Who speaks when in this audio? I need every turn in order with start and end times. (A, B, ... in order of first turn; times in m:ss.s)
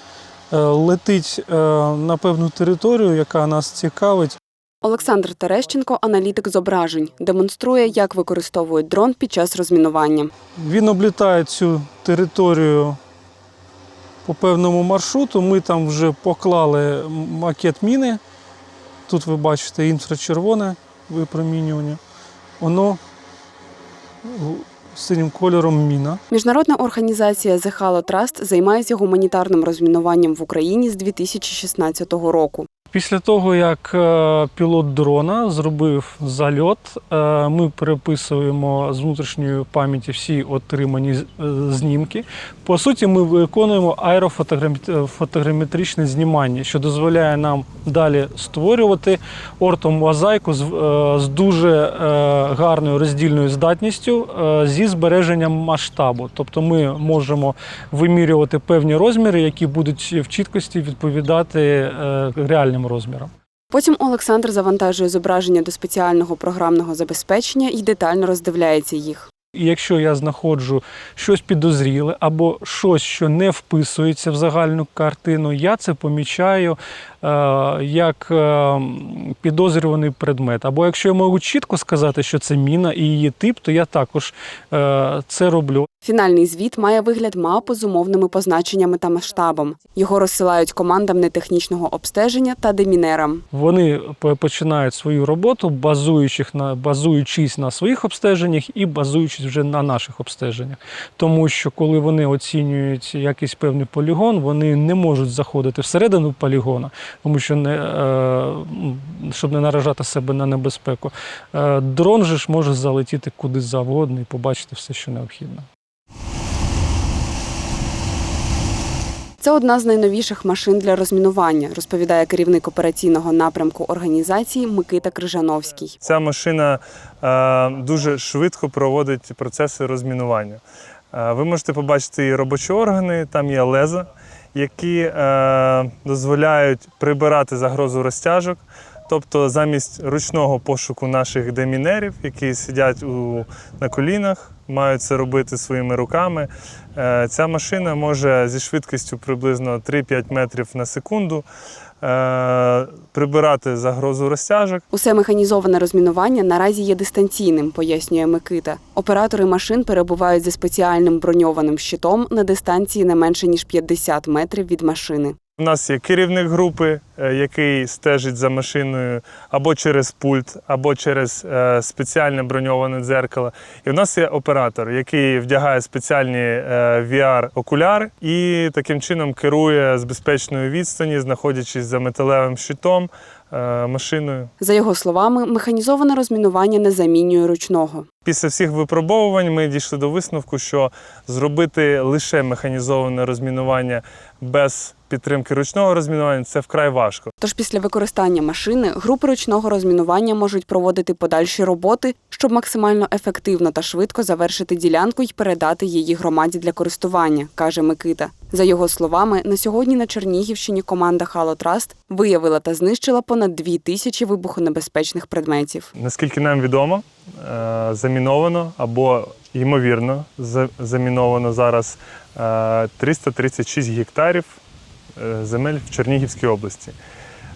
0:00.5-0:04.4 A
0:04.8-0:10.3 B
0:10.6-0:13.0 A
0:14.2-0:18.2 A
0:19.1-0:22.0 A
0:22.6-0:23.0 A
0:24.2-0:26.2 A
0:26.3-0:32.7 B
0:32.9-1:03.3 A
1:03.7-1:09.3 B
1:09.5-1:25.9 A
1:26.0-1:33.4 B
1:33.5-1:55.7 A
1:59.4-2:06.0 B
2:06.0-2:10.6 C
2:11.1-2:31.5 C
2:32.0-2:34.8 C
2:34.9-2:45.4 B
2:45.6-3:04.5 C
3:04.6-3:08.1 B
3:08.2-3:17.3 C
3:17.4-3:35.9 B
3:36.0-3:44.6 C
3:45.2-3:47.0 C